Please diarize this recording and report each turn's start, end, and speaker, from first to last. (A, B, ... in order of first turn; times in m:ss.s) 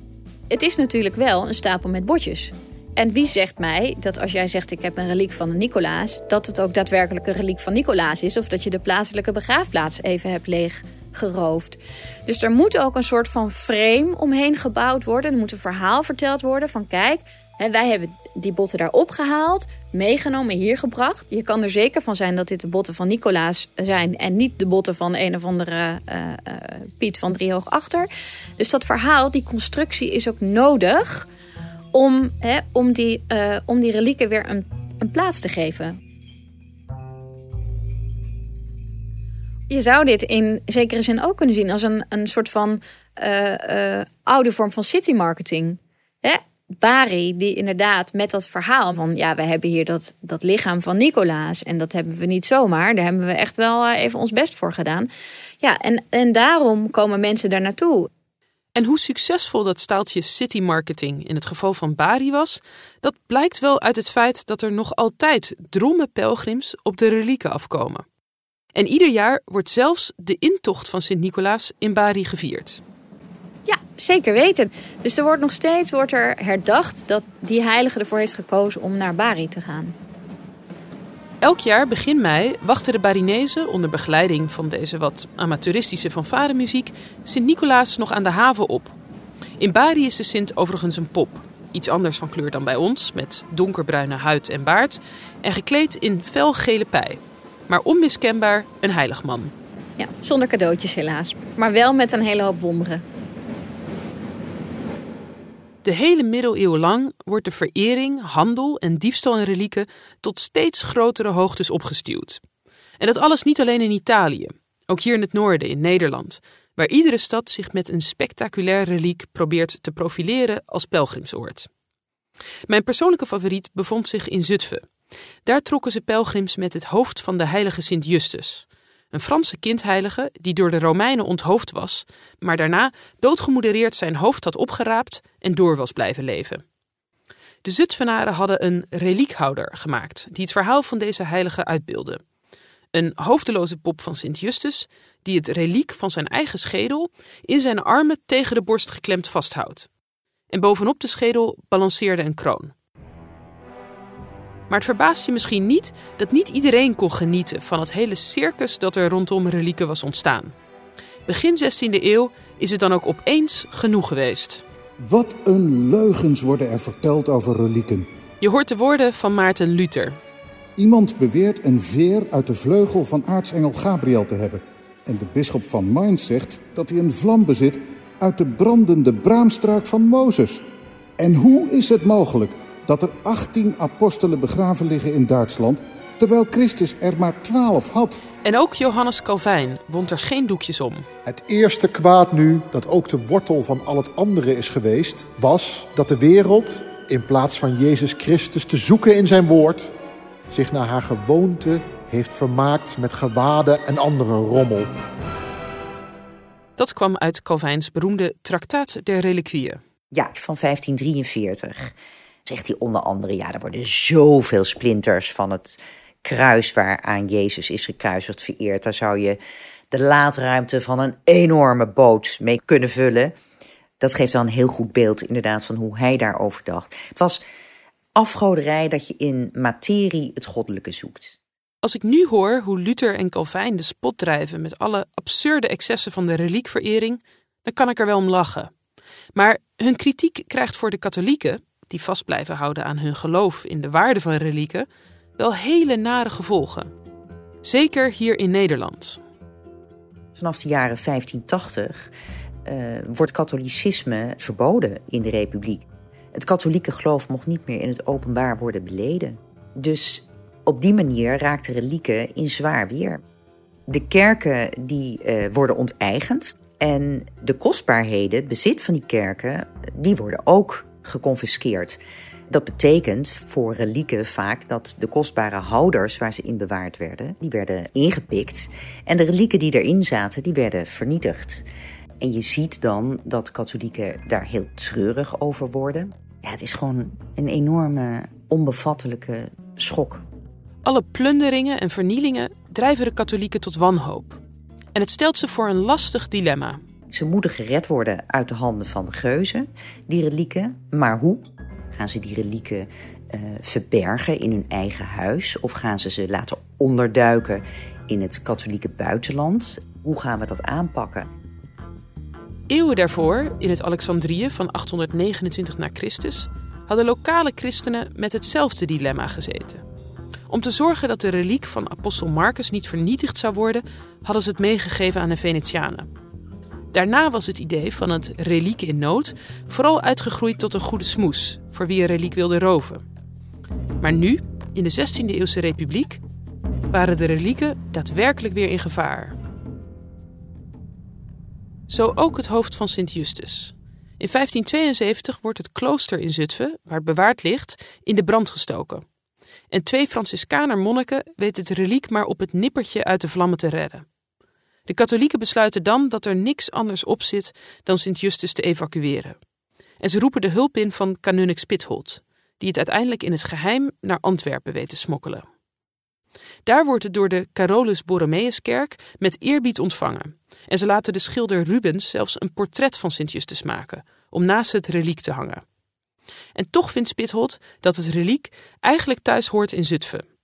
0:00.5-0:31.3 A
0:31.9-0:36.0 A
0:39.7-0:55.1 A
0:55.6-0:58.1 A
0:58.7-1:08.0 B
1:08.7-1:12.8 B
1:13.7-1:20.0 A
1:21.4-1:28.9 B
1:29.6-1:39.5 B
1:40.0-1:43.0 A
1:45.8-1:52.4 B
1:53.0-2:01.7 B
2:02.7-2:04.8 B
2:05.4-2:16.6 B
2:17.6-2:22.2 B
2:22.9-2:29.9 B
2:30.5-2:32.7 B
2:34.7-2:40.5 B
2:41.2-2:44.6 B
2:45.0-2:48.1 C
2:48.4-2:50.2 B
2:50.8-3:00.6 C
3:01.2-3:08.2 C
3:08.4-3:11.0 B
3:11.3-3:19.9 D
3:20.5-3:24.9 D
3:26.8-3:29.8 B
3:30.1-3:31.9 E
3:32.4-3:39.4 E
3:39.9-3:43.4 E
3:44.0-3:47.4 E
3:48.2-3:51.4 E
3:51.8-3:58.7 B
3:59.3-4:04.9 B
4:05.4-4:06.9 B
4:07.6-4:09.2 B
4:10.4-4:12.1 E
4:12.6-4:23.2 E
4:23.9-4:41.6 E
4:42.2-4:50.2 E
4:50.8-4:54.4 B
4:54.9-4:56.8 B
4:57.1-5:11.3 E
5:12.7-5:19.8 B
5:20.5-5:26.1 B
5:26.9-5:33.0 B
5:34.0-5:36.2 B
5:36.9-5:39.4 B
5:41.9-5:49.0 B
5:49.7-5:54.0 B
5:54.9-5:59.4 B
6:00.0-6:05.4 B
6:06.6-6:15.6 B
6:16.5-6:20.2 B